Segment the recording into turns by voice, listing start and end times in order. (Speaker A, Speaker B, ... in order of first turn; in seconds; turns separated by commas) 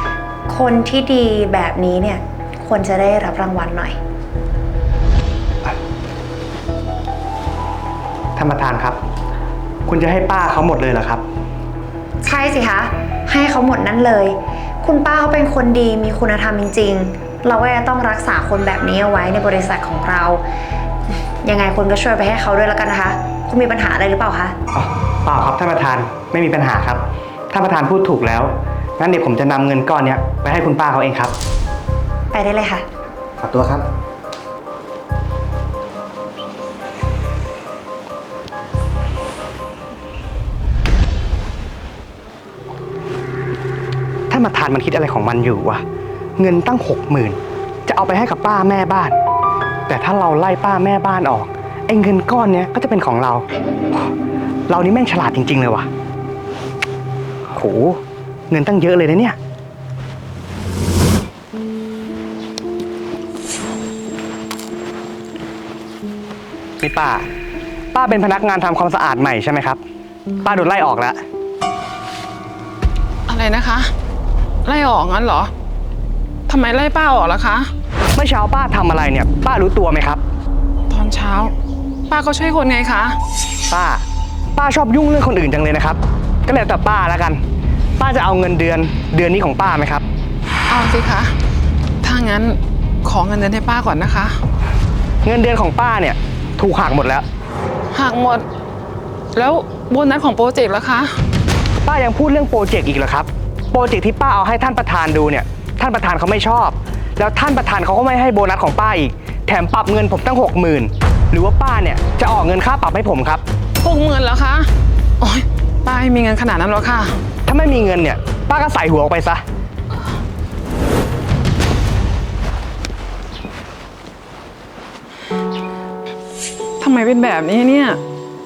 Speaker A: 0.5-4.0, Speaker B: 8.4-9.0, Speaker B: 9.9-11.2, Speaker A: 12.2-20.4, Speaker A: 21.4-24.6, Speaker B: 24.7-31.3, Speaker A: 32.3-32.9, Speaker B: 33.4-33.9, Speaker B: 44.3-45.8, Speaker B: 46.4-49.2, Speaker B: 49.9-54.1, Speaker B: 54.7-55.9, Speaker B: 57.5-59.4, Speaker B: 66.8-67.3, Speaker B: 67.9-69.8, Speaker B: 70.4-71.2, Speaker C: 73.3-73.9, Speaker C: 74.7-75.5, Speaker C: 76.5-77.7, Speaker B: 78.2-80.2, Speaker C: 80.9-81.5, Speaker C: 82.1-83.2, Speaker B: 83.7-84.0, Speaker B: 84.6-87.4, Speaker B: 88.0-90.0, Speaker C: 90.7-91.4, Speaker C: 92.0-94.4, Speaker B: 95.2-97.3, Speaker C: 97.9-98.5, Speaker C: 99.3-101.2, Speaker B: 101.8-113.4, Speaker C: 113.8-114.7, Speaker C: 115.2-117.2, Speaker B: 117.5-119.4, Speaker C: 126.8-128.0